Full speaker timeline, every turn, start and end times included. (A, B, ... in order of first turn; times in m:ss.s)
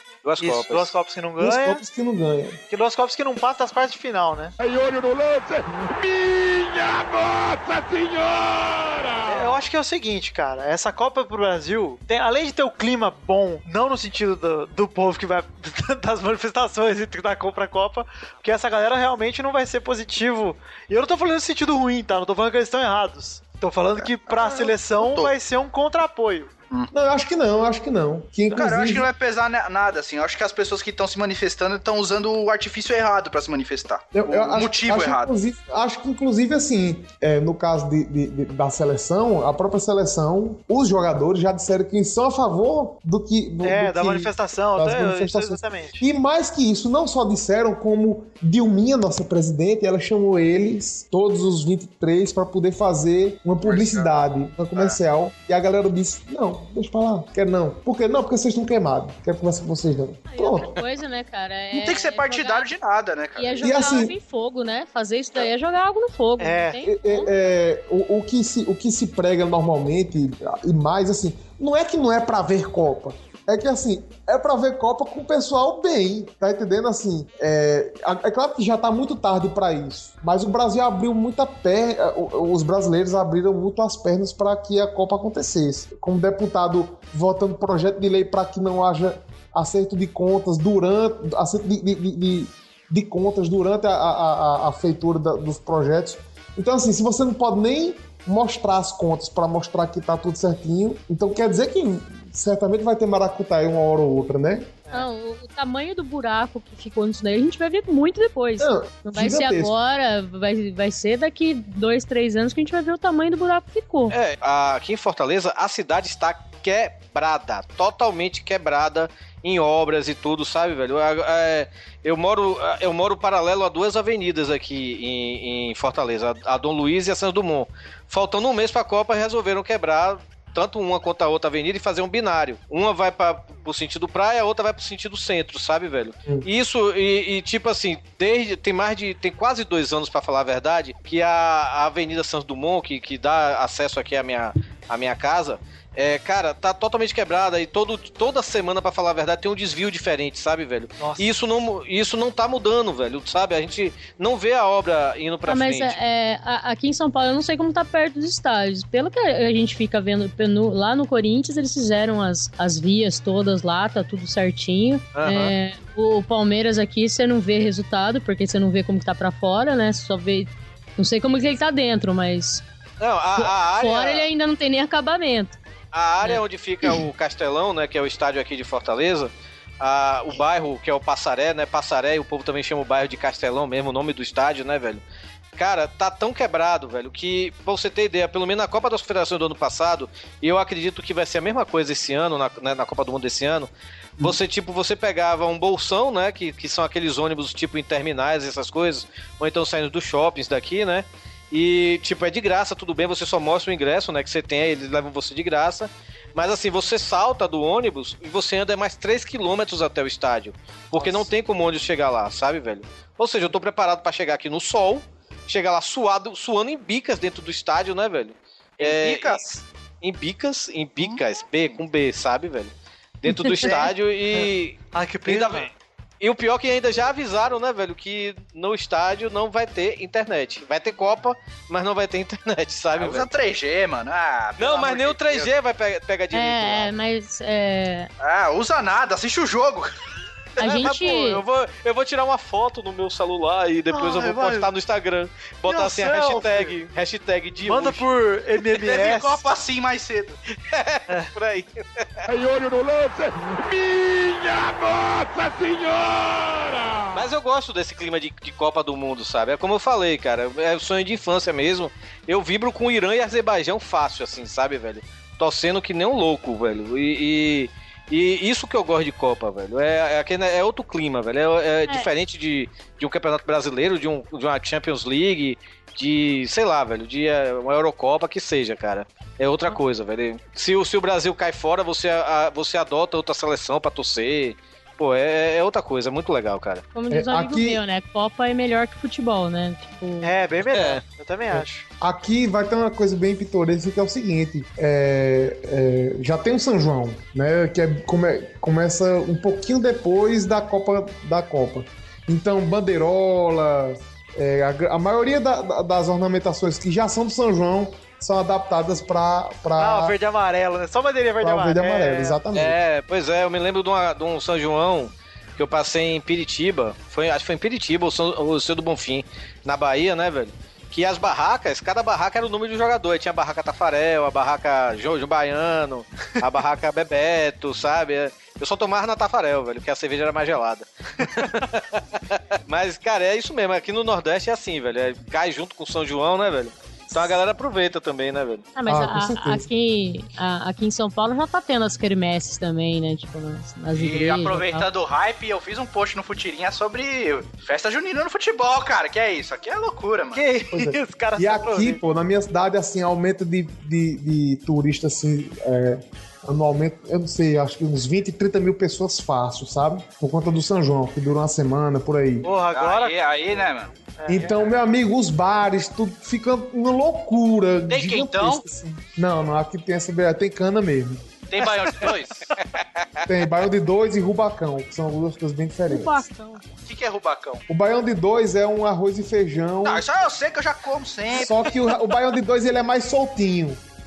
0:00.2-0:00.9 A
0:00.4-0:01.8 B
0:01.4-0:02.6 C
0:02.7-0:04.5 B
0:04.6-0:09.6 D
0:09.3-0:26.5 B
0:24.4-0:25.3 E
0:26.9-0:29.1 C
0:28.5-0:35.3 E
0:34.1-1:00.8 C
0:43.6-0:46.0 B
0:53.6-0:55.0 E
1:00.3-1:02.7 F
1:01.7-1:03.9 E
1:03.4-1:07.3 F
1:03.6-1:04.1 C
1:06.4-1:06.8 B
1:06.8-1:44.7 C
1:44.9-1:54.1 F
1:48.6-1:49.7 C
1:54.1-2:36.0 A
2:31.0-2:31.2 B
2:35.4-2:52.6 F
2:45.1-2:45.5 A
2:53.0-2:54.3 A
2:53.4-2:55.6 F
2:55.9-3:05.0 A
3:05.6-3:39.4 A
3:38.8-3:39.6 E
3:40.0-3:53.2 A
3:44.4-3:45.7 B
3:53.0-3:55.5 E
3:54.6-3:56.9 A
3:56.3-3:58.1 F
3:58.2-3:59.9 E
4:00.6-4:01.4 F
4:00.6-4:08.0 A
4:03.9-4:04.7 B
4:05.6-4:06.7 B
4:07.6-4:09.5 B
4:08.8-4:10.4 E
4:10.6-4:12.3 A
4:12.3-4:17.3 D
4:17.1-4:46.8 A
4:46.9-4:50.3 F
4:47.1-4:47.8 C
4:50.2-4:51.8 B
4:50.7-4:51.0 A
4:51.5-5:10.1 C
5:09.8-5:12.4 B
5:11.4-5:12.8 C
5:12.5-5:38.6 A
5:38.7-5:44.9 F
5:38.9-5:39.7 C
5:43.9-5:50.5 E
5:50.3-5:52.0 B
5:50.7-6:02.5 C
6:02.4-6:04.7 B
6:02.7-6:03.9 E
6:04.3-6:11.3 C
6:07.9-6:08.6 E
6:11.5-6:12.6 E
6:13.3-6:16.3 C
6:15.9-6:16.6 F
6:16.8-6:17.6 E
6:17.7-6:20.1 C
6:19.8-6:21.8 E
6:21.3-6:23.8 C